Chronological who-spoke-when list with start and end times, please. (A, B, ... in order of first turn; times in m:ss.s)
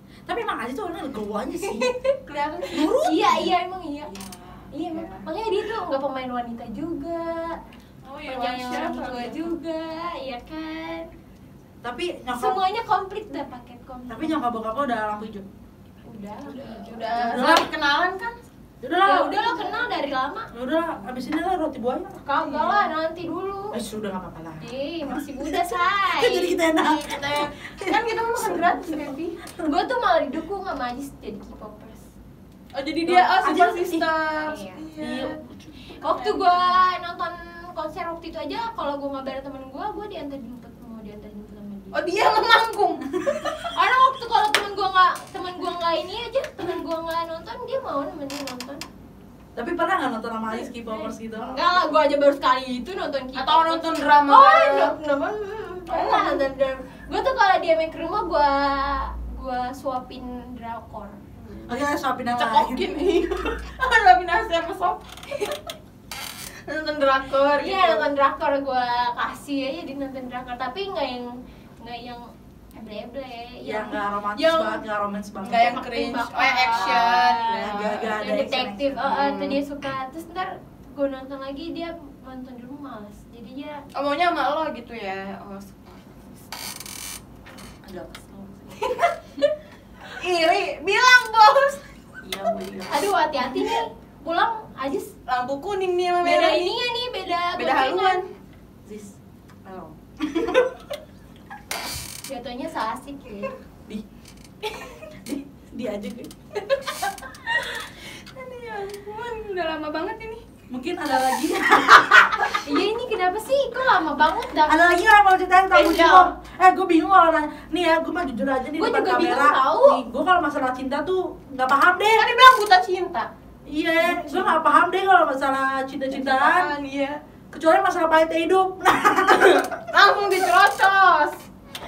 0:00.3-0:01.9 A
0:01.6-0:02.1 B
0:02.2-0:02.9 C
0:02.7-0:03.5 A
0:02.8-0:04.1 B
0:04.0-0:05.2 C
0:04.7-0:07.6 B
0:08.0-0:09.5 C
0:08.2-0:11.1 B
0:11.8-0:12.6 A
0:12.3-0:14.4 B
0:14.1-0:15.5 A
0:16.0-0:17.4 B
0:16.5-0:18.4 C
0:17.1-0:17.7 A
0:18.8-0:19.9 A
0:19.0-0:20.5 B
0:20.5-0:22.5 A
0:22.4-0:23.8 B
0:22.4-0:22.9 C
0:23.7-0:29.7 A
0:24.6-0:26.6 B
0:26.8-0:29.3 C
0:29.6-0:32.1 B
0:32.7-0:35.4 C
0:33.0-0:34.1 A
0:34.4-0:34.8 B
0:35.0-0:35.7 A
0:36.0-0:42.2 B
0:36.0-0:36.8 C
0:41.9-0:43.1 C
0:43.2-0:43.5 A
0:43.4-0:48.8 B
0:49.5-0:51.6 A
0:50.5-1:01.2 B
0:53.3-0:54.9 C
0:55.9-0:56.4 C
1:01.4-1:01.7 C
1:01.7-1:03.2 A
1:02.3-1:05.6 C
1:06.6-1:08.1 C
1:07.6-1:14.8 B
1:13.6-1:15.8 A
1:15.4-1:18.2 C
1:15.5-1:17.7 B
1:16.8-1:19.0 A
1:18.2-1:23.8 B
1:19.0-1:19.6 C
1:23.9-1:26.7 C
1:27.7-1:28.8 A
1:28.8-1:29.5 B
1:30.1-1:31.8 C
1:32.2-1:33.4 A
1:32.9-1:35.1 B
1:35.3-1:36.8 C
1:36.2-1:38.2 B
1:37.5-1:38.2 C
1:38.8-1:40.7 A
1:42.2-1:43.5 B
1:45.2-1:46.3 A
1:47.5-1:50.4 C
1:50.7-1:52.7 A
1:52.5-1:54.8 B
1:54.6-2:02.3 A
1:55.7-1:56.3 C
1:58.8-2:00.0 B
2:02.1-2:03.3 C
2:03.6-2:06.7 A
2:04.0-2:04.5 B
2:06.1-2:07.2 C
2:07.5-2:09.7 A
2:09.4-2:11.4 C